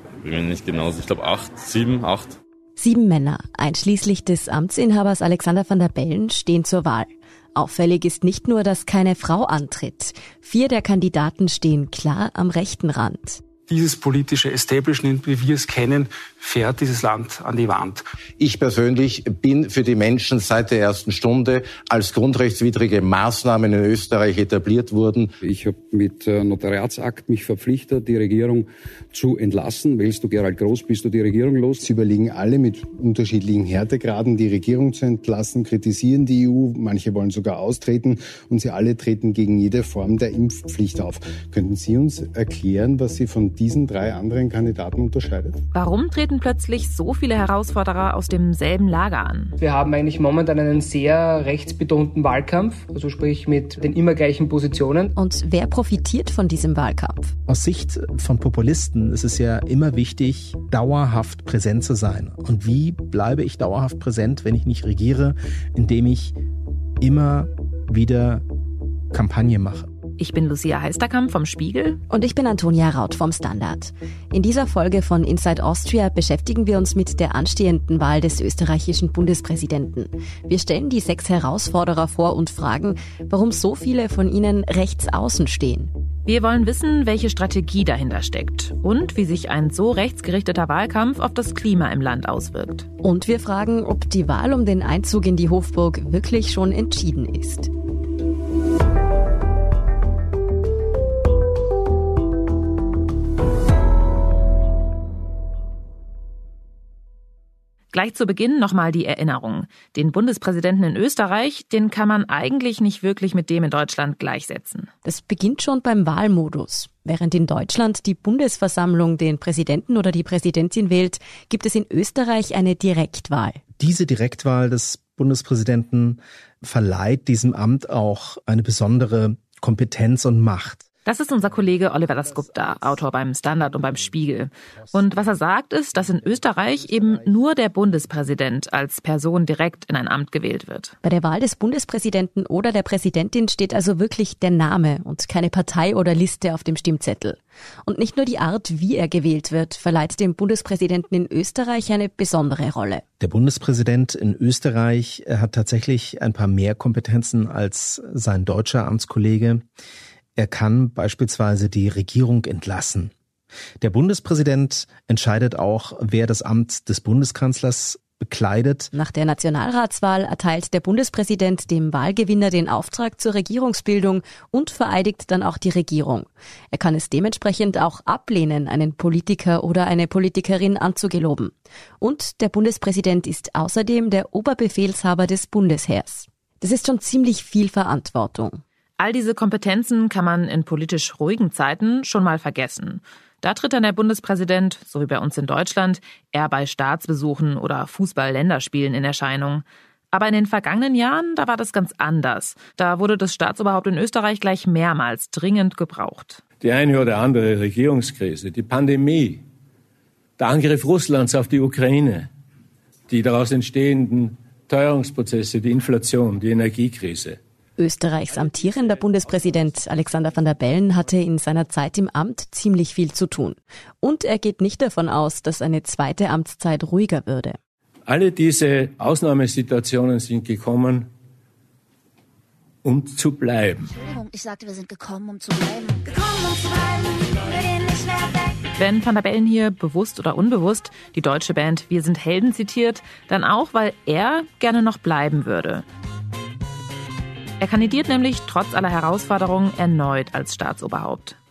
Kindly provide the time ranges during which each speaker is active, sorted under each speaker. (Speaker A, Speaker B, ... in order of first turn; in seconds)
Speaker A: 0.2-2.4
Speaker B: 2.8-13.4, 55.1-57.3, 72.1-85.9, 93.0-97.7, 115.0-123.6, 141.0-153.0, 168.9-188.6, 217.8-227.6
Speaker C: 13.7-18.0
Speaker D: 18.4-25.3
Speaker E: 25.4-31.8
Speaker F: 31.9-45.6
Speaker G: 45.7-49.5, 70.2-72.0, 86.2-92.9, 107.9-114.9, 131.1-140.9, 189.0-206.4, 238.8-245.8, 247.6-251.3
Speaker H: 49.6-55.1
Speaker I: 57.5-66.3, 67.0-68.4, 69.1-69.9, 123.8-130.8, 153.2-159.6, 160.3-163.1, 163.8-168.9
Speaker J: 206.6-209.4, 210.4-212.3, 213.1-217.4, 228.1-231.1, 232.8-233.9
Speaker K: 233.9-238.6